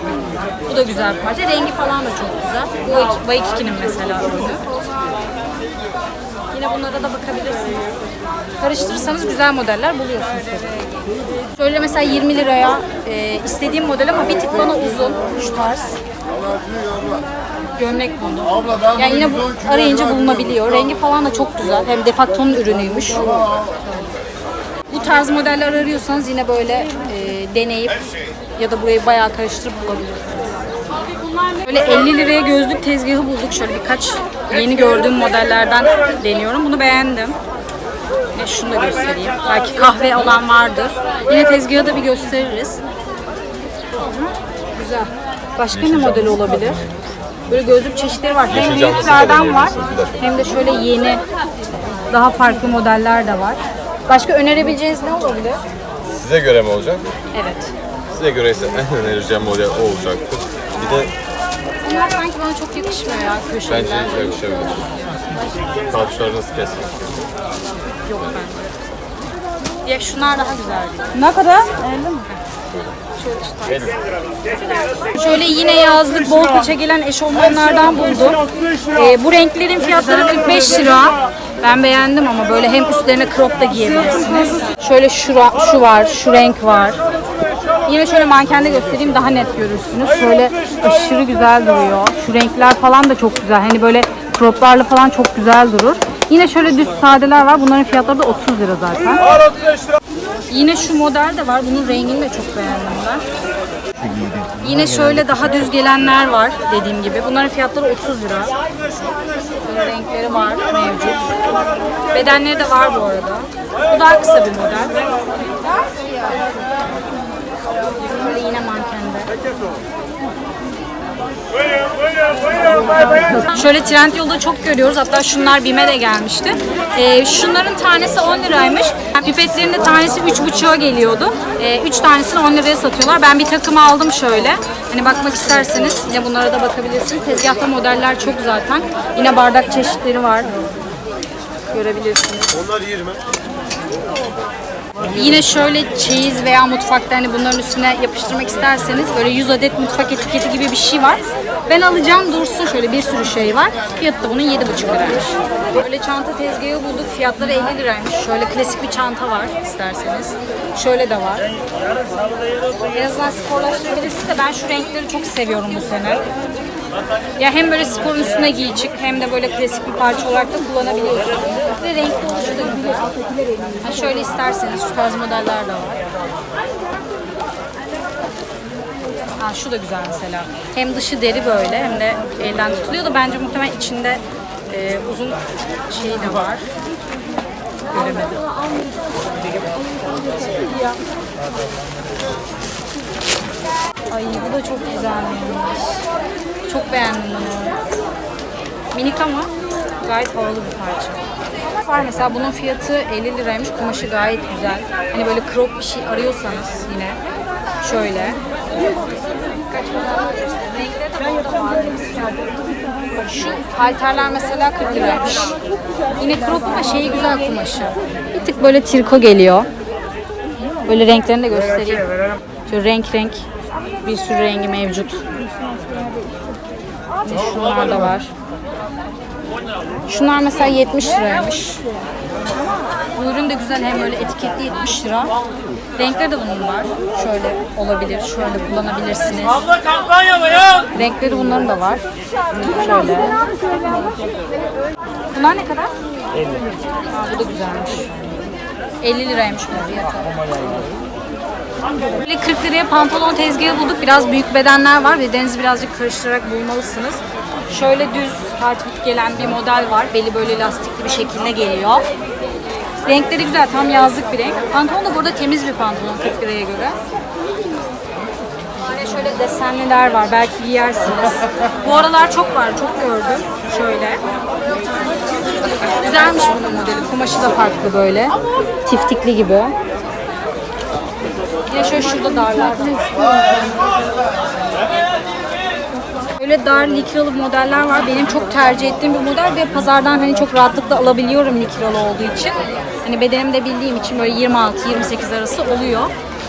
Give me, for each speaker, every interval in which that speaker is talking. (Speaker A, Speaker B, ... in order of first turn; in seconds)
Speaker A: 0.7-4.7, 6.5-7.9, 8.6-11.0, 11.5-16.0, 17.8-24.1, 24.9-28.0, 28.6-30.7, 31.6-37.4, 38.3-42.8, 44.0-46.8, 47.5-51.2, 52.1-55.6, 57.3-57.7, 61.8-65.4, 68.1-68.6, 69.8-72.4, 73.1-74.0, 75.0-87.0, 87.9-99.4, 100.5-103.2, 104.6-108.6, 109.6-111.4, 112.1-115.2, 118.0-119.4, 122.8-140.6, 141.7-142.5, 145.0-161.5, 162.9-166.3, 167.4-173.1, 173.8-176.1, 179.4-186.7, 187.9-188.5, 194.1-196.1, 196.7-197.8, 198.9-199.5, 200.0-207.2, 207.8-209.0, 209.6-212.5, 213.2-215.6, 216.2-219.7, 220.8-222.1, 222.7-223.5, 224.0-225.3, 227.2-228.3, 230.1-231.8, 233.1-235.3, 236.0-239.6, 240.9-242.1, 242.6-243.4, 245.3-245.9, 247.1-250.8, 252.2-262.1, 263.0-267.0, 268.8-274.2, 276.0-279.8, 281.7-283.5, 286.4-296.1
Speaker B: 45.8-47.0, 48.5-50.2, 56.0-57.1, 58.1-61.1, 63.7-64.8, 65.8-67.2